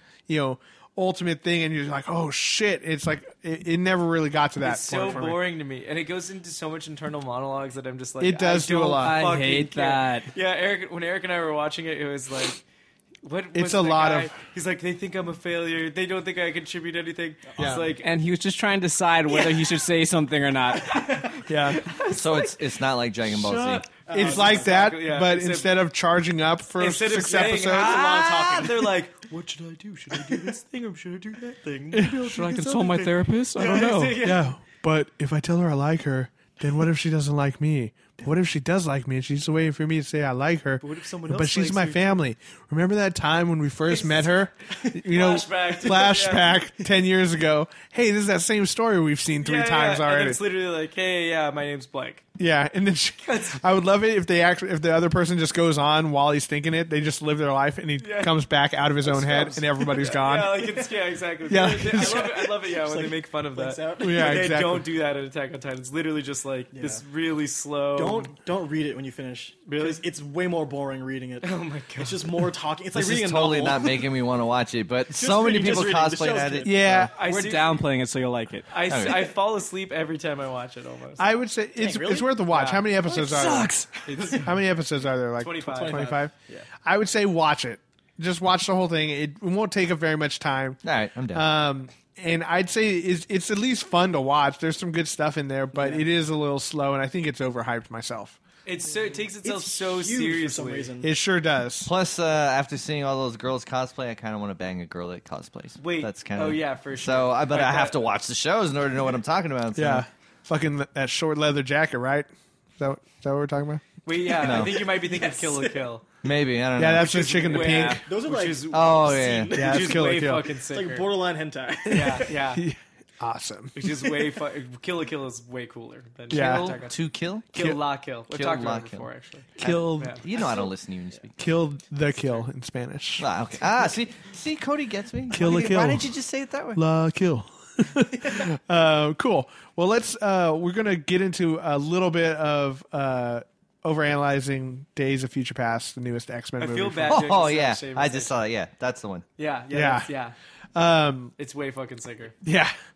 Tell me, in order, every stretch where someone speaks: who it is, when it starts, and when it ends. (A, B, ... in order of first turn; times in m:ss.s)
0:00.3-0:05.4 A
0:04.6-0:12.6 B
0:08.2-0:09.2 A
0:09.0-0:10.3 C
0:13.2-0:18.1 B
0:13.5-0:14.4 A
0:17.6-0:17.9 D
0:17.6-0:17.9 A
0:18.0-0:21.3 C
0:20.9-0:22.6 B
0:21.5-0:21.8 A
0:22.0-0:23.9 E
0:23.3-0:25.7 B
0:24.1-0:24.9 D
0:24.1-0:28.0 A
0:26.8-0:34.5 B
0:27.2-0:29.0 D
0:30.2-0:30.5 D
0:31.9-0:32.3 A
0:32.1-0:34.2 C
0:34.2-0:50.4 A
0:40.8-0:42.2 B
0:45.0-0:46.7 B
0:49.4-0:52.2 B
0:52.4-1:00.9 A
0:53.2-0:53.6 B
0:58.0-0:58.4 B
0:59.1-0:59.6 D
0:59.1-1:08.3 B
1:01.5-1:02.5 A
1:01.5-1:04.6 D
1:04.0-1:04.9 A
1:06.7-1:07.0 D
1:08.0-1:14.2 D
1:09.7-1:10.0 B
1:11.4-1:12.5 B
1:12.9-1:17.1 E
1:15.1-1:16.8 D
1:16.6-1:17.1 A
1:17.1-1:17.8 B
1:17.2-1:18.7 C
1:18.7-1:21.2 B
1:18.9-1:19.3 E
1:21.2-1:23.8 A
1:21.8-1:22.4 D
1:22.5-1:22.8 B
1:23.2-1:23.6 E
1:24.1-1:24.5 B
1:24.3-1:26.3 A
1:25.4-1:26.2 B
1:25.6-1:26.7 D
1:26.8-1:30.8 A
1:30.8-1:31.5 E
1:31.3-1:38.4 A
1:38.6-1:40.9 B
1:39.4-1:41.1 D
1:41.0-1:41.9 A
1:41.8-1:50.0 E
1:45.8-1:48.1 B
1:49.8-1:53.8 A
1:54.0-1:56.0 B
1:54.4-1:54.9 E
1:54.4-1:55.8 D
1:56.2-1:57.4 E
1:56.8-1:58.0 A
1:56.9-2:01.2 B
1:57.6-2:02.4 D
1:58.7-1:59.6 E
1:59.5-2:00.5 A
2:01.9-2:02.6 B
2:02.5-2:04.1 A
2:03.8-2:07.0 B
2:06.3-2:06.8 A
2:06.3-2:07.6 E
2:07.5-2:10.2 B
2:08.3-2:09.1 E
2:09.6-2:10.2 A
2:09.6-2:11.4 E
2:10.4-2:10.6 D
2:11.4-2:13.3 A
2:13.2-2:16.8 E
2:15.3-2:16.1 A
2:16.8-2:27.4 A
2:26.6-2:28.4 B
2:27.1-2:29.3 E
2:29.4-2:30.4 B
2:29.7-2:30.1 A
2:30.8-2:31.3 A
2:31.4-2:32.4 B
2:32.4-2:32.7 A